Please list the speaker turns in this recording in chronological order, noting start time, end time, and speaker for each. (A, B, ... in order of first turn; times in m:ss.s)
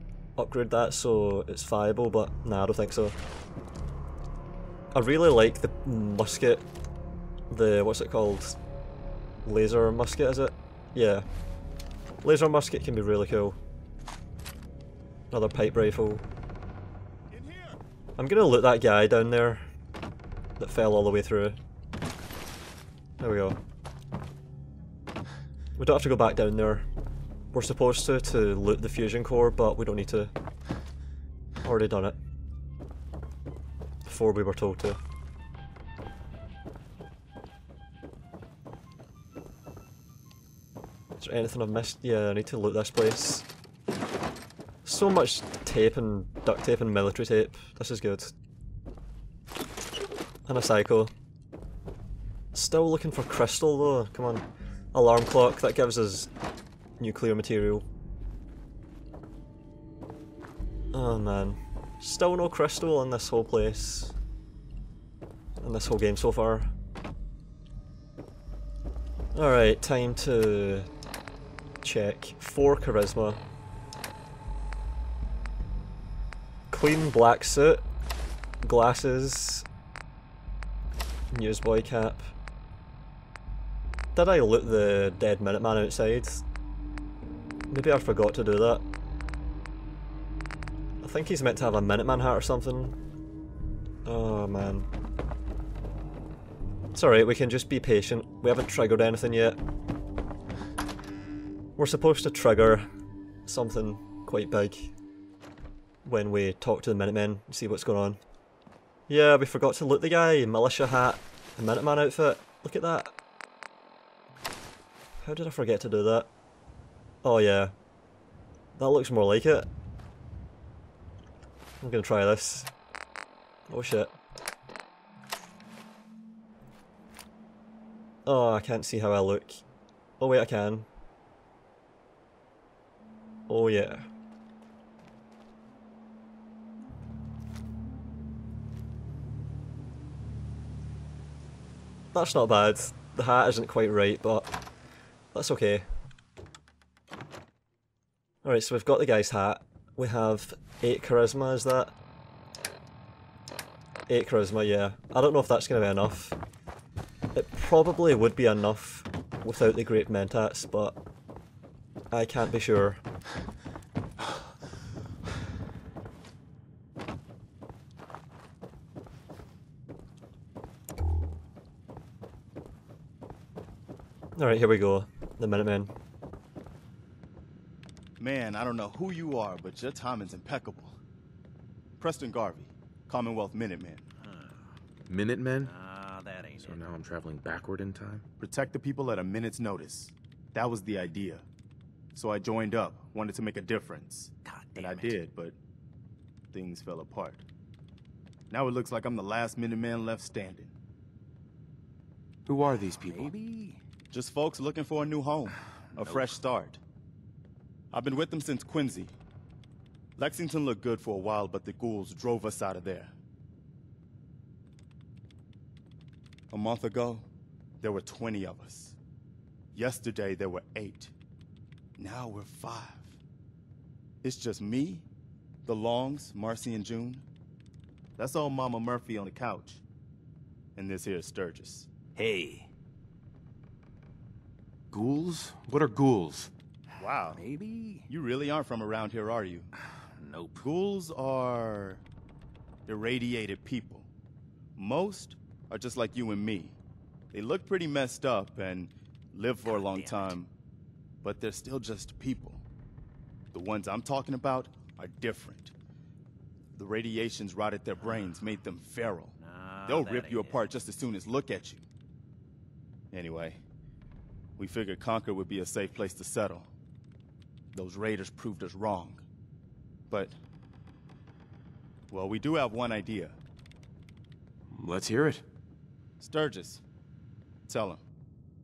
0:00.4-0:03.2 A
0:04.9-0:06.6 A
0:07.5-0:08.6 A
0:09.4-0:11.2 A
0:12.2-0:13.6 A
0:15.3-0:16.2 A
0:17.3-0:17.8 B
0:18.2-0:19.6 A
0:20.6-0:21.6 A
0:23.2-0:23.6 A
0:25.8-0:26.9 A
0:27.5-0:30.3 A
0:31.6-0:32.2 A
0:34.1-0:35.0 A
0:41.2-0:43.4 A
0:44.8-0:48.3 A
0:50.5-0:51.1 A
0:52.5-0:56.3 A
0:57.0-0:57.8 A
1:00.9-1:04.2 A
1:05.6-1:06.7 A
1:09.3-1:10.9 A
1:11.8-1:13.4 A
1:16.7-1:17.8 A
1:18.6-1:19.6 A
1:21.3-1:22.2 A
1:24.2-1:26.4 A
1:27.7-1:28.8 A
1:31.0-1:33.0 A
1:34.0-1:34.9 A
1:36.9-1:39.6 A
1:41.8-1:42.9 A
1:43.5-1:44.9 A
1:46.0-1:48.2 A
1:49.1-1:53.1 A
1:55.2-1:56.3 A
1:57.2-1:57.7 A
1:58.8-1:59.7 A
2:01.8-2:02.7 A
2:03.7-2:04.1 A
2:08.3-2:09.6 A
2:10.2-2:10.9 A
2:13.5-2:14.1 A
2:22.1-2:24.5 A
2:25.3-2:25.9 A
2:28.4-2:31.9 A
2:34.1-2:36.4 A
2:37.3-2:41.0 A
2:42.1-2:43.0 A
2:54.4-2:55.9 A
2:58.2-3:01.0 B
3:02.0-3:04.0 B
3:04.2-3:04.6 C
3:05.1-3:05.7 D
3:05.6-3:06.8 C
3:06.6-3:08.2 D
3:08.4-3:11.5 B
3:12.2-3:15.6 B
3:14.4-3:15.2 C
3:16.5-3:17.4 B
3:18.5-3:20.7 B
3:22.5-3:23.3 D
3:23.0-3:23.8 C
3:24.1-3:26.8 B
3:26.0-3:26.3 C
3:27.9-3:29.2 B
3:30.2-3:33.1 B
3:36.5-3:37.3 B
3:37.8-3:39.0 B
3:39.7-3:41.1 B
3:42.0-3:43.2 B
3:44.2-3:45.1 B
3:45.7-3:47.2 B
3:48.2-3:49.8 B
3:50.8-3:51.9 B
3:52.2-3:52.7 C
3:54.9-3:56.5 D
3:57.0-3:57.4 B
3:57.4-3:58.1 C
3:58.1-3:59.7 B
4:00.2-4:00.7 C
4:00.6-4:02.0 B
4:02.9-4:04.1 B
4:04.8-4:06.8 B
4:07.3-4:10.5 B
4:09.6-4:10.4 C
4:11.2-4:12.6 B
4:13.5-4:15.7 B
4:16.8-4:21.8 B
4:19.4-4:20.7 C
4:23.1-4:23.6 B
4:24.6-4:26.7 B
4:27.7-4:29.2 B
4:30.1-4:30.4 B
4:32.1-4:33.4 B
4:34.7-4:35.4 D
4:36.2-4:36.8 B
4:37.7-4:38.0 B